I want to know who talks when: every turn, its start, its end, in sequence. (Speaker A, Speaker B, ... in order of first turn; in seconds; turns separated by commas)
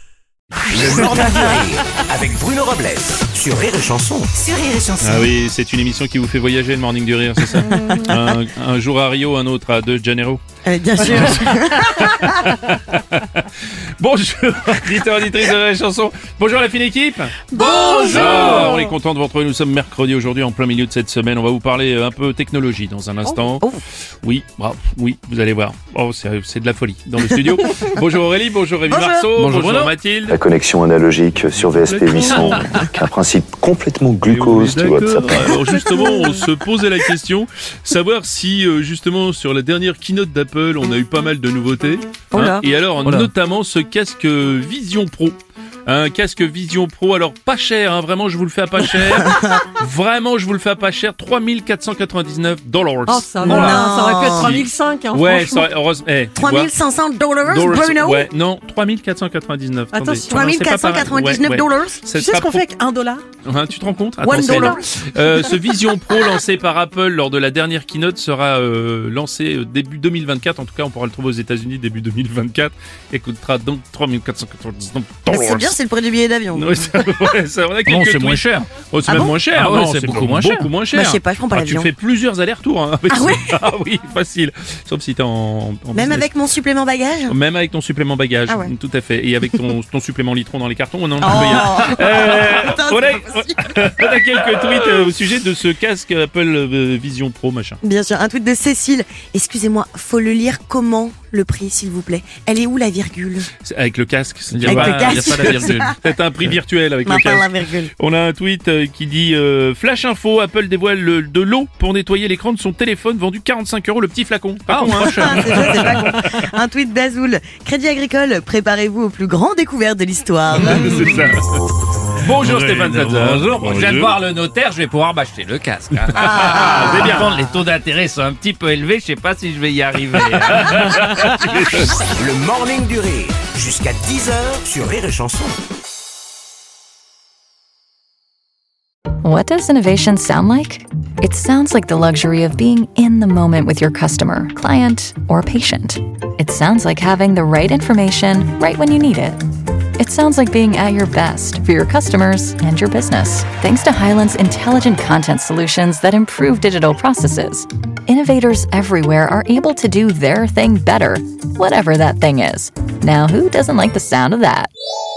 Speaker A: 0.7-4.3, Speaker B: 4.4-5.1, Speaker C: 5.0-10.4, Speaker B: 7.7-8.1, Speaker B: 10.7-12.5, Speaker C: 11.9-23.7, Speaker D: 17.5-18.9, Speaker B: 17.6-18.1, Speaker B: 23.2-23.8, Speaker C: 24.2-30.4, Speaker B: 27.3-27.9, Speaker B: 28.9-29.3, Speaker E: 29.3-29.9, Speaker F: 30.3-35.7, Speaker C: 31.5-32.8, Speaker C: 34.2-56.7, Speaker B: 42.3-42.6, Speaker B: 49.2-49.6, Speaker D: 53.1-55.7, Speaker B: 53.4-54.6, Speaker B: 56.3-58.3, Speaker C: 57.5-62.7, Speaker D: 59.9-60.5, Speaker B: 60.2-62.0, Speaker D: 62.1-63.2, Speaker C: 63.4-75.8, Speaker B: 64.2-64.8, Speaker D: 64.4-64.7, Speaker B: 75.3-77.0, Speaker C: 76.5-86.3, Speaker E: 77.8-78.8, Speaker B: 79.0-79.4, Speaker E: 79.4-80.8, Speaker B: 80.9-81.9, Speaker B: 83.1-83.6, Speaker B: 85.9-87.3, Speaker C: 87.3-97.8, Speaker B: 88.5-88.7, Speaker B: 91.2-93.8, Speaker B: 97.8-103.5, Speaker C: 103.6-116.5, Speaker E: 104.5-105.9, Speaker B: 104.6-106.0, Speaker B: 107.0-107.9, Speaker B: 114.7-121.3, Speaker E: 114.9-116.0, Speaker C: 120.5-121.4, Speaker E: 120.7-121.2, Speaker C: 122.2-124.1, Speaker E: 122.2-131.8, Speaker B: 126.1-127.1, Speaker C: 126.3-127.4, Speaker C: 130.1-131.9, Speaker A: 132.1-135.6, Speaker G: 139.2-149.4, Speaker G: 150.0-164.7